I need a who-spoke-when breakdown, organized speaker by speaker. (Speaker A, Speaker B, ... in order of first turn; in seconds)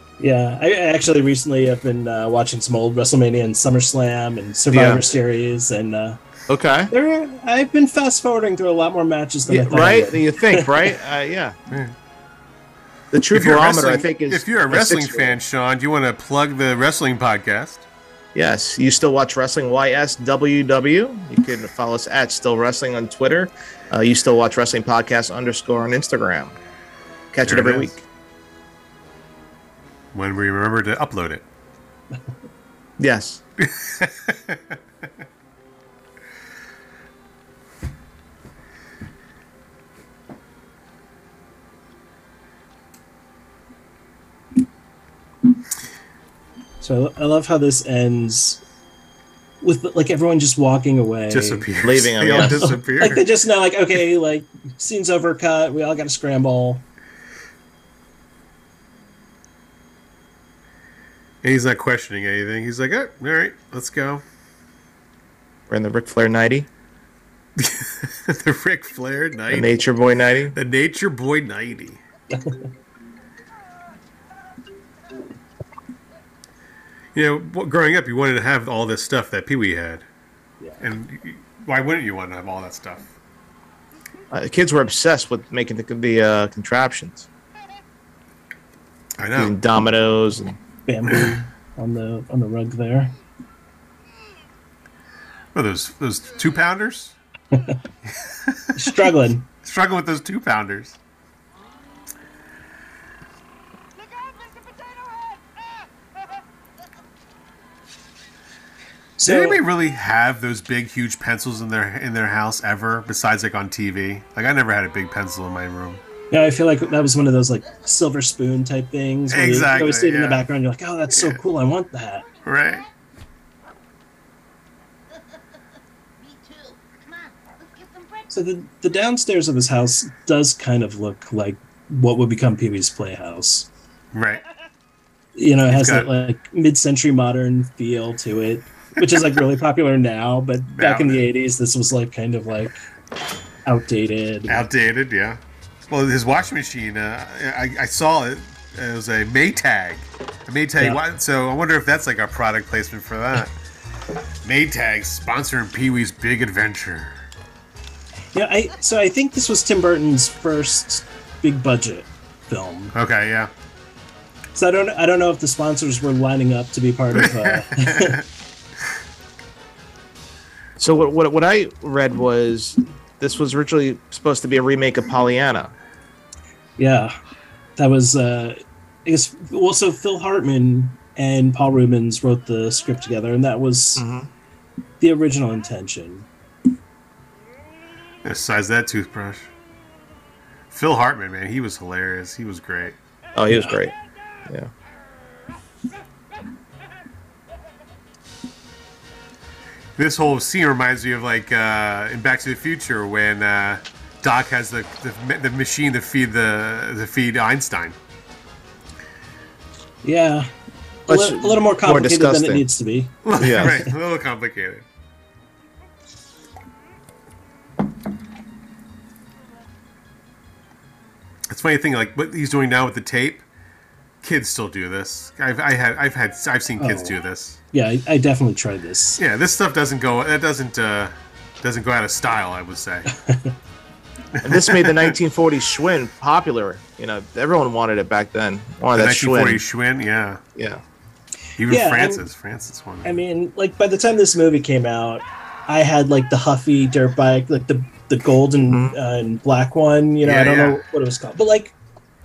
Speaker A: 0.2-6.2, 6.9-10.9, 46.8-48.6, 49.6-51.6, 52.3-56.8, 72.3-72.6, 90.9-93.1, 98.7-99.5, 109.2-109.6, 116.3-122.2, 128.3-133.7, 135.3-142.8, 143.6-144.6, 158.3-162.9, 164.5-168.2, 176.8-177.2, 177.8-184.0, 185.0-186.3, 193.5-193.8, 210.0-210.5, 211.1-213.9, 226.8-227.1, 227.7-229.2, 233.1-233.5, 241.7-242.2, 243.0-251.7
Speaker B: 4.7-5.1, 6.5-6.9, 9.5-11.6, 13.1-15.4, 18.3-26.5, 27.3-28.0, 33.0-33.4, 51.8-52.7, 65.7-66.7, 69.5-70.5, 84.3-87.3, 89.3-90.6, 170.8-175.7, 184.0-184.3, 193.3-193.9, 211.1-212.7, 213.4-213.8, 234.4-239.6, 240.6-240.8, 248.7-248.9
Speaker C: 13.3-17.9, 27.4-27.9, 30.1-31.4, 33.6-34.8, 51.3-53.3, 61.4-64.2, 67.6-69.8, 70.5-72.0, 77.1-80.0, 80.8-83.1, 89.2-89.6, 95.5-97.1, 98.5-99.0, 99.6-101.0, 109.2-116.0, 119.3-120.4, 121.1-121.4, 122.4-122.8, 134.1-134.4, 135.7-136.1, 139.0-139.4, 140.7-141.2, 144.5-153.5, 154.4-157.1, 162.9-163.5, 167.2-168.2, 188.2-189.5, 190.7-192.9, 200.0-207.9, 213.2-214.8, 221.5-223.4, 224.2-227.6, 229.2-233.1, 234.3-235.1, 238.9-240.4, 241.6-243.2, 250.2-250.8
Speaker D: 125.1-125.4, 126.2-128.3